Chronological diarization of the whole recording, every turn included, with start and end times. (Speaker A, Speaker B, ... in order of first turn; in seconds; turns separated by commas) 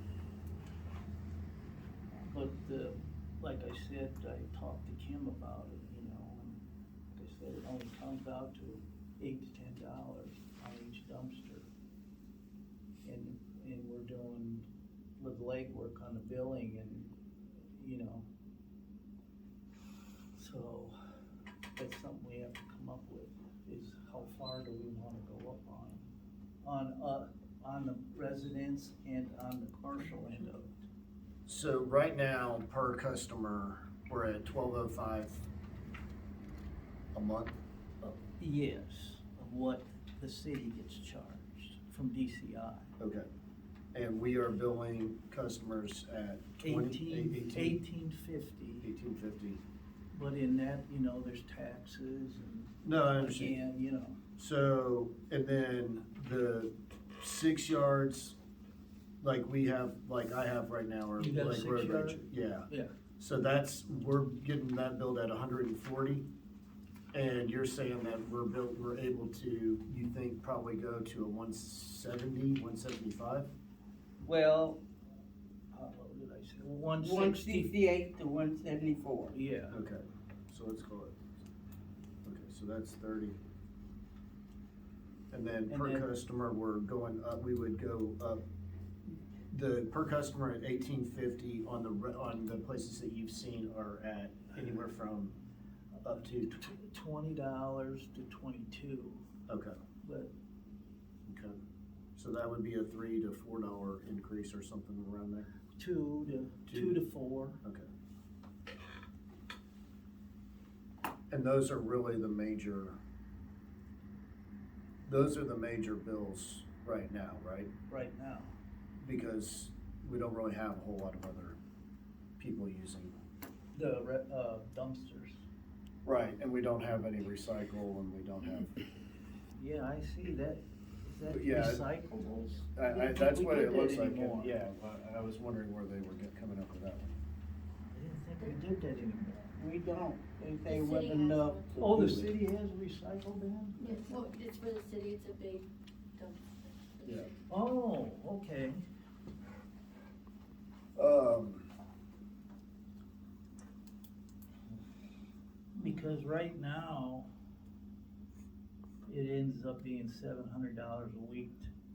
Speaker A: 2.3-11.7, Speaker A: 13.0-14.7, Speaker A: 15.2-17.1, Speaker A: 17.7-18.3, Speaker A: 20.3-21.0, Speaker A: 21.8-26.1, Speaker A: 26.6-30.7, Speaker B: 31.4-35.5, Speaker B: 37.1-37.5, Speaker A: 38.0-42.9, Speaker B: 43.0-43.3, Speaker B: 43.9-47.8, Speaker A: 46.6-48.9, Speaker B: 48.8-49.6, Speaker A: 50.1-54.2, Speaker B: 52.8-53.6, Speaker B: 54.4-58.4, Speaker B: 59.2-62.7, Speaker A: 61.2-62.9, Speaker B: 63.2-66.3, Speaker B: 67.1-73.5, Speaker A: 74.2-74.8, Speaker A: 75.7-77.8, Speaker C: 77.0-79.3, Speaker A: 79.3-79.8, Speaker B: 79.7-81.2, Speaker B: 82.2-83.4, Speaker B: 85.3-88.4, Speaker A: 85.7-86.1, Speaker B: 89.5-95.4, Speaker A: 95.9-99.2, Speaker B: 96.0-96.7, Speaker B: 99.5-99.8, Speaker A: 100.0-100.3, Speaker B: 101.3-101.6, Speaker B: 102.2-105.5, Speaker A: 105.8-107.6, Speaker B: 106.7-107.0, Speaker B: 107.6-107.9, Speaker B: 111.3-113.0, Speaker B: 115.1-117.7, Speaker A: 117.9-118.5, Speaker B: 119.0-121.6, Speaker B: 122.4-123.2, Speaker A: 123.7-125.4, Speaker B: 126.0-128.7, Speaker A: 129.5-134.5, Speaker B: 131.3-131.8, Speaker B: 132.8-137.2, Speaker A: 137.9-139.5, Speaker C: 139.6-142.2, Speaker D: 140.7-142.0, Speaker A: 141.8-143.8, Speaker D: 143.8-147.3, Speaker B: 147.0-147.3, Speaker A: 147.5-148.8, Speaker B: 151.0-151.7, Speaker A: 155.7-157.3, Speaker A: 159.1-161.7